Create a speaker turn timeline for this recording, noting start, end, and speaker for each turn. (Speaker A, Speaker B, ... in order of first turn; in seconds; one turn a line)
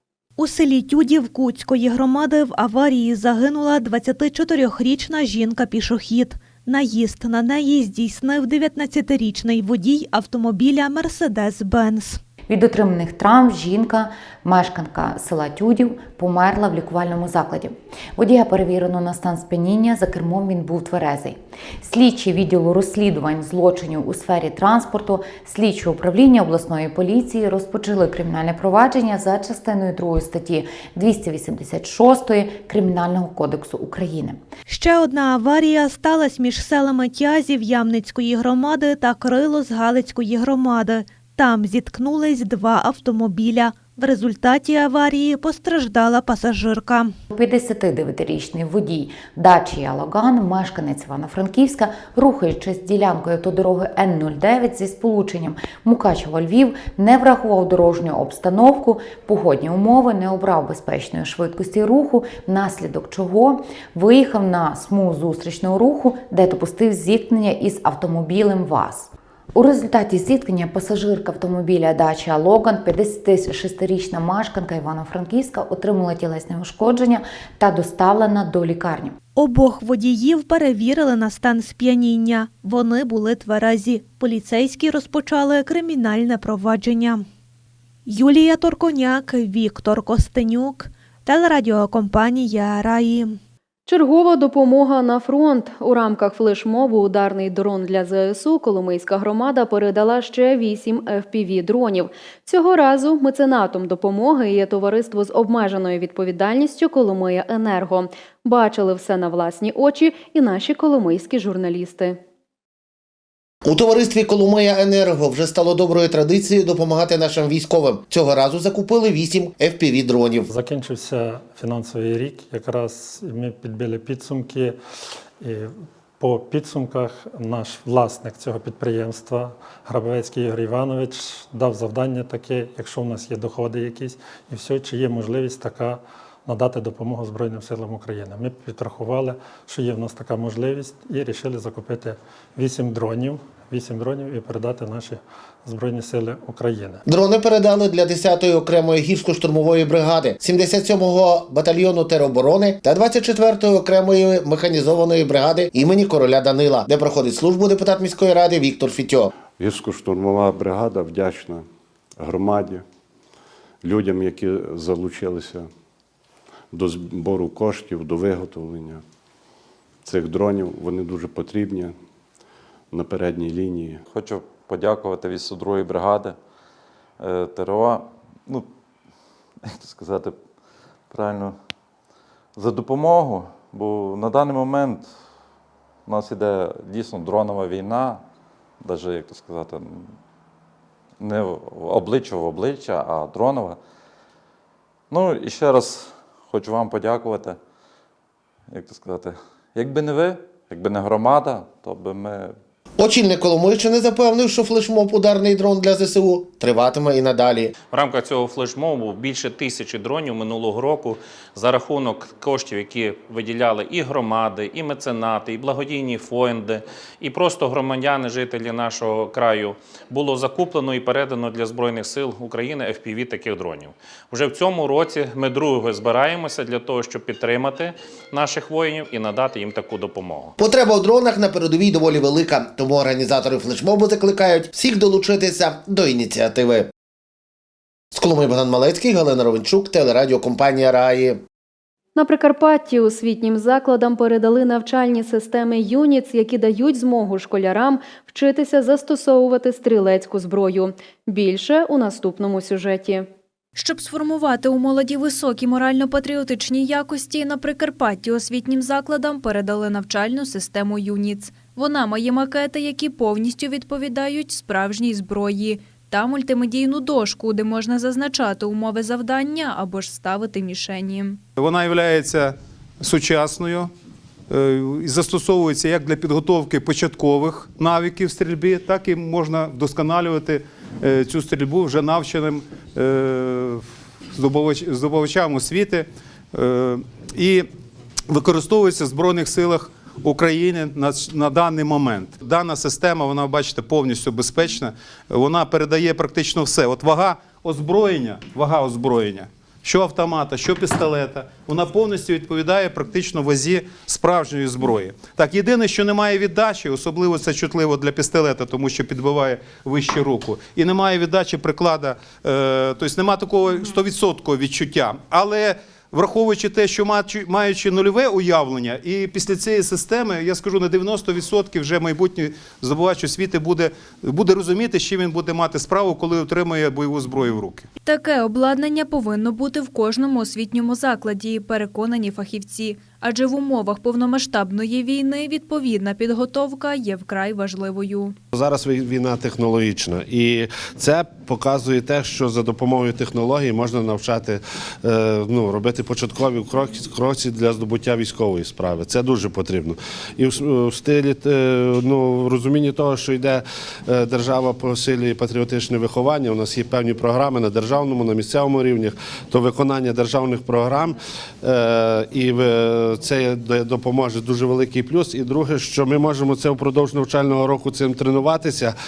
Speaker A: 0.4-12.2
Speaker B: 12.5-34.4
Speaker A: 34.7-47.1
Speaker B: 47.3-79.2
Speaker A: 79.3-87.3
Speaker A: 88.0-93.4
Speaker C: 93.8-112.2
Speaker D: 113.6-120.5
Speaker E: 120.5-124.7
Speaker E: 125.4-147.0
Speaker D: 147.1-159.3
Speaker F: 159.6-161.6
Speaker F: 162.2-162.8
Speaker F: 163.8-165.7
Speaker F: 166.7-169.0
Speaker F: 170.1-171.9
Speaker F: 172.9-174.0
Speaker G: 174.1-176.3
Speaker G: 177.2-178.7
Speaker G: 179.7-180.3
Speaker G: 181.1-181.6
Speaker G: 182.6-185.1
Speaker G: 186.1-188.2
Speaker G: 188.8-190.1
Speaker G: 191.2-193.8
Speaker G: 195.1-197.6
Speaker G: 198.7-202.5
Speaker D: 203.0-207.7
Speaker H: 207.9-230.5
Speaker D: 230.6-236.9
Speaker D: 238.1-241.4
Speaker C: 242.1-253.3
Speaker I: 253.7-271.4
Speaker J: 271.6-273.9
Speaker J: 274.5-287.7
Speaker J: 288.3-327.9
Speaker I: 328.0-338.4
Speaker K: 338.5-368.9